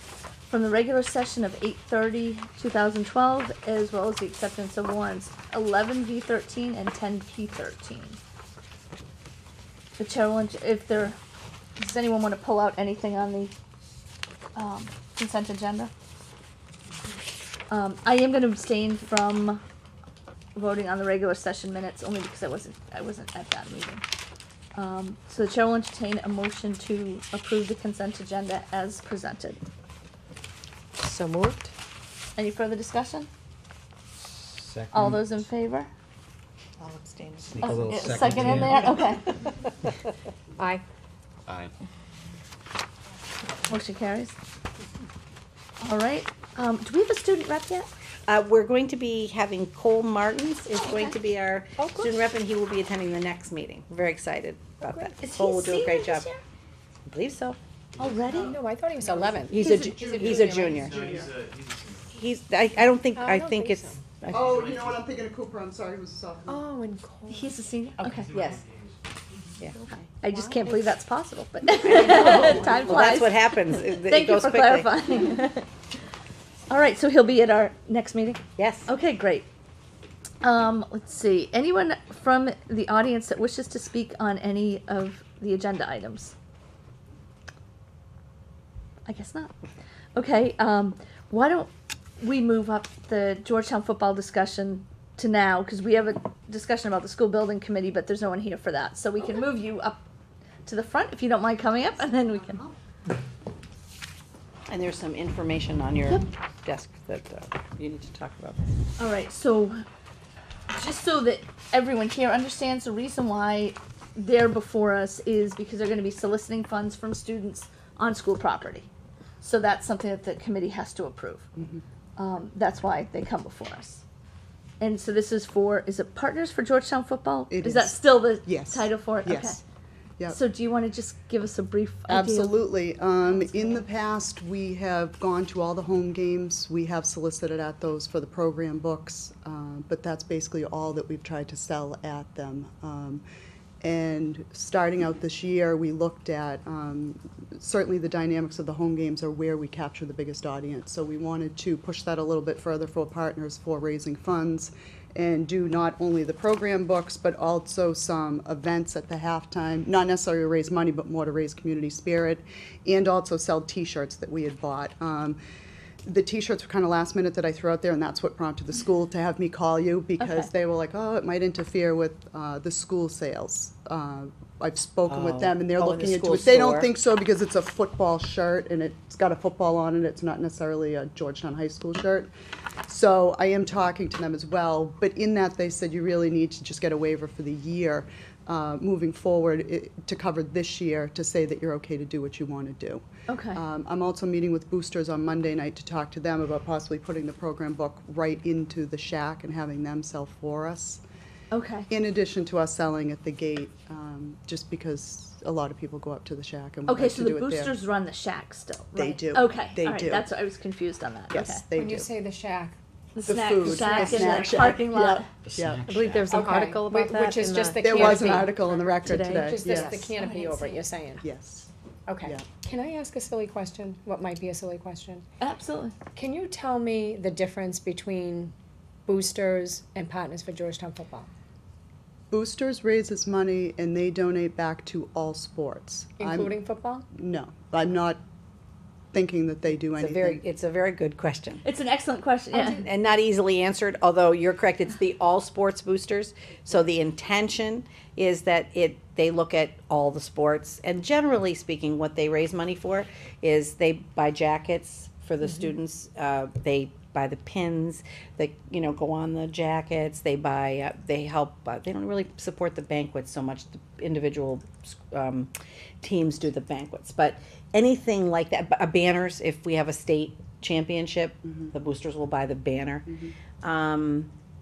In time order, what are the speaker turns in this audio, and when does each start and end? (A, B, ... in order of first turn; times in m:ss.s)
0:00.5-0:08.2 A
0:10.0-0:11.2 A
0:11.8-0:13.5 A
0:14.5-0:15.9 A
0:17.7-0:19.6 A
0:20.5-0:24.0 A
0:24.7-0:29.6 A
0:31.0-0:31.7 B
0:32.4-0:33.3 A
0:34.4-0:35.3 C
0:34.9-0:35.9 A
0:36.8-0:37.7 D
0:37.4-0:39.0 C
0:37.6-0:39.4 A
0:43.7-0:44.3 A
0:45.8-0:47.9 A
0:48.3-0:56.3 D
0:50.7-0:51.2 A
0:51.8-0:52.1 E
0:54.9-0:55.1 E
0:55.2-0:56.4 A
0:57.1-0:57.6 D
0:57.9-0:58.6 F
0:58.0-0:58.5 A
0:58.3-1:01.1 E
0:59.5-1:01.2 D
0:59.5-1:00.1 A
1:00.2-1:02.2 F
1:00.9-1:01.3 G
1:02.1-1:04.6 D
1:03.1-1:04.0 E
1:04.3-1:06.6 G
1:04.3-1:05.1 F
1:06.5-1:07.5 E
1:07.3-1:08.3 A
1:08.0-1:08.6 D
1:08.0-1:09.6 F
1:09.6-1:10.1 D
1:10.2-1:15.7 A
1:10.2-1:10.9 E
1:12.0-1:14.9 D
1:12.1-1:12.7 E
1:12.2-1:12.5 G
1:16.7-1:19.5 A
1:18.6-1:18.9 D
1:20.4-1:26.3 A
1:29.0-1:29.5 A
1:30.1-1:40.0 A
1:40.6-1:42.6 A
1:42.2-1:42.7 G
1:44.7-1:48.6 D
1:49.0-1:49.8 A
1:50.7-1:58.9 A
1:59.4-2:01.5 A
2:01.6-2:01.8 G
2:02.2-2:04.0 A
2:04.8-2:09.6 A
2:07.5-2:09.6 G
2:10.3-2:12.6 A
2:12.1-2:23.2 G
2:13.3-2:13.7 A
2:23.8-2:45.4 G
2:46.0-3:02.3 G
2:50.2-2:50.5 A
2:55.1-2:56.9 D
3:02.9-3:21.0 G
3:13.3-3:13.6 A
3:21.5-3:21.9 A
3:21.9-3:27.7 G
3:26.8-3:31.6 A
3:29.0-3:30.3 G
3:31.3-3:32.1 G
3:31.7-3:32.8 E
3:33.1-3:35.3 A
3:33.2-3:36.0 G
3:33.6-3:34.0 E
3:35.4-3:36.4 C
3:35.9-3:39.7 B
3:36.3-3:41.2 E
3:37.8-3:40.1 G
3:40.1-3:40.8 A
3:41.2-3:41.7 G
3:42.1-3:45.2 E
3:45.4-3:46.0 A
3:46.1-3:48.5 E
3:49.0-3:51.3 E
3:52.3-3:56.6 G
3:56.2-3:57.0 E
3:57.1-3:58.2 G
3:59.1-4:00.4 G
4:00.0-4:01.6 D
4:01.6-4:02.8 A
4:02.6-4:25.5 D
4:26.0-4:33.1 D
4:31.4-4:31.7 G
4:33.1-4:33.3 G
4:33.6-4:34.3 D